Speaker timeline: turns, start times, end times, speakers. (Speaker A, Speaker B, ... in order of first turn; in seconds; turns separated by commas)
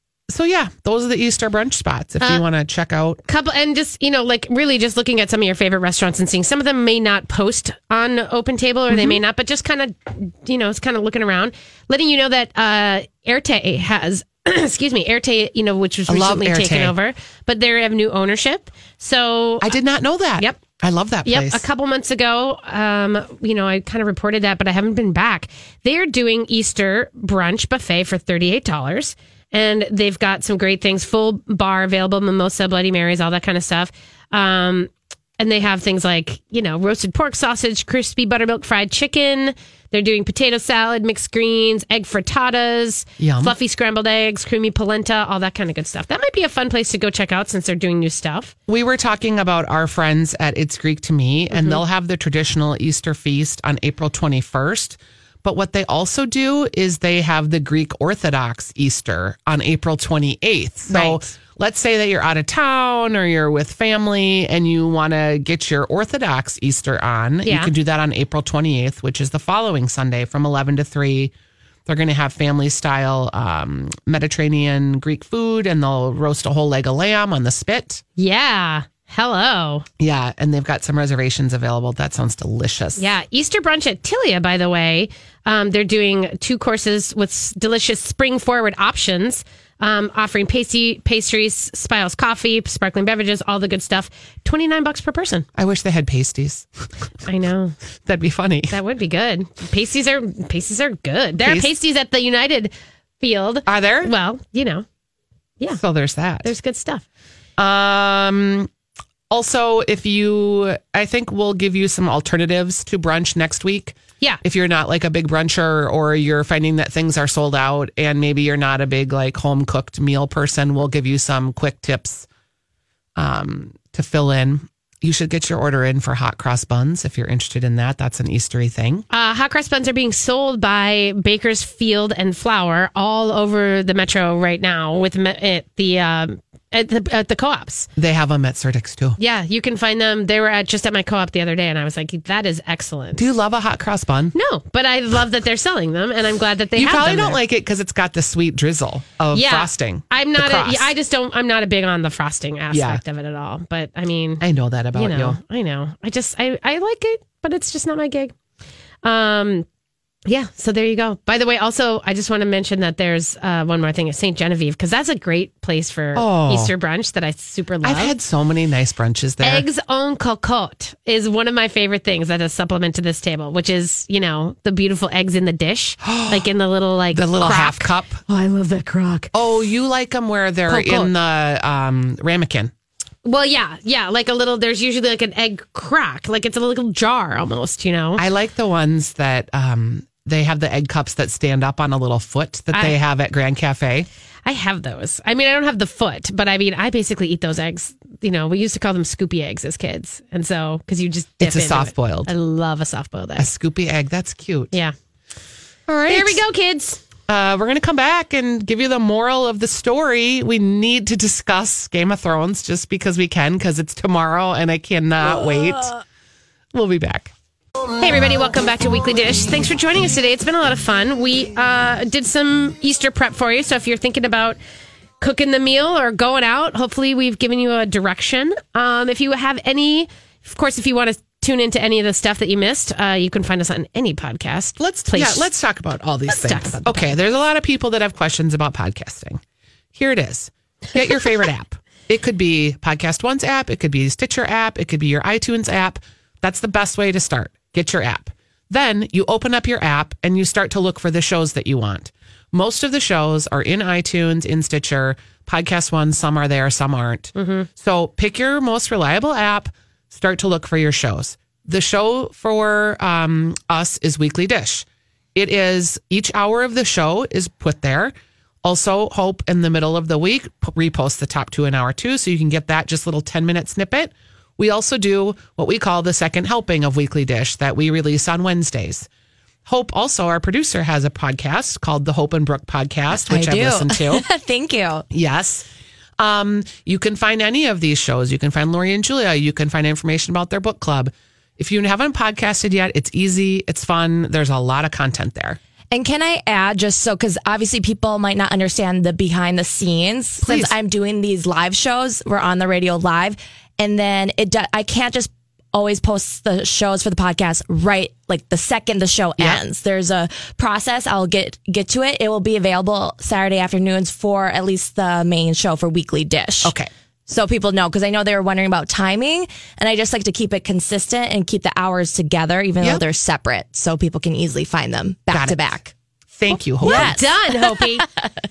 Speaker A: 0.3-3.2, Speaker B: 3.3-19.7, Speaker A: 8.9-9.2, Speaker A: 16.1-16.9, Speaker A: 19.6-21.6, Speaker B: 21.2-48.5, Speaker A: 43.2-43.5, Speaker A: 48.7-71.3, Speaker B: 60.9-61.3, Speaker B: 67.4-67.7, Speaker A: 71.8-78.0, Speaker B: 78.2-79.8, Speaker A: 80.0-83.1, Speaker B: 83.0-95.5, Speaker A: 95.5-96.7, Speaker B: 97.2-97.8, Speaker A: 98.0-98.8, Speaker B: 98.7-104.8, Speaker A: 101.4-101.7, Speaker A: 103.7-104.1, Speaker A: 105.7-106.5, Speaker B: 106.4-107.0, Speaker A: 107.6-108.7, Speaker A: 109.3-122.3, Speaker A: 123.2-129.0, Speaker B: 129.1-137.9, Speaker A: 137.9-139.2, Speaker B: 139.2-143.3, Speaker A: 143.1-144.3, Speaker B: 144.3-147.4, Speaker A: 146.7-150.9, Speaker B: 149.3-154.4, Speaker A: 152.7-153.0, Speaker A: 154.4-155.4, Speaker B: 154.9-158.3, Speaker B: 159.0-159.7, Speaker B: 160.2-168.1, Speaker A: 166.1-166.7, Speaker A: 167.8-169.7, Speaker B: 169.4-179.3, Speaker A: 176.0-176.5, Speaker A: 177.1-178.2, Speaker A: 179.3-182.7, Speaker B: 180.7-181.1, Speaker B: 183.2-188.2, Speaker A: 188.2-194.1, Speaker B: 194.4-203.5, Speaker A: 201.4-202.3, Speaker A: 203.4-204.7, Speaker A: 205.9-206.4, Speaker B: 206.1-207.0, Speaker A: 207.3-215.9, Speaker A: 216.7-217.3, Speaker B: 218.0-224.6, Speaker B: 225.2-235.5, Speaker A: 234.8-239.4, Speaker B: 236.3-237.2, Speaker A: 239.9-279.1, Speaker B: 257.4-257.7, Speaker A: 279.6-284.2, Speaker C: 283.1-285.0, Speaker A: 285.1-285.7, Speaker A: 286.2-295.6, Speaker C: 295.9-325.9, Speaker A: 300.4-300.7, Speaker A: 316.6-316.9, Speaker A: 325.3-325.7, Speaker A: 326.3-327.2, Speaker C: 326.6-328.3, Speaker B: 326.8-328.1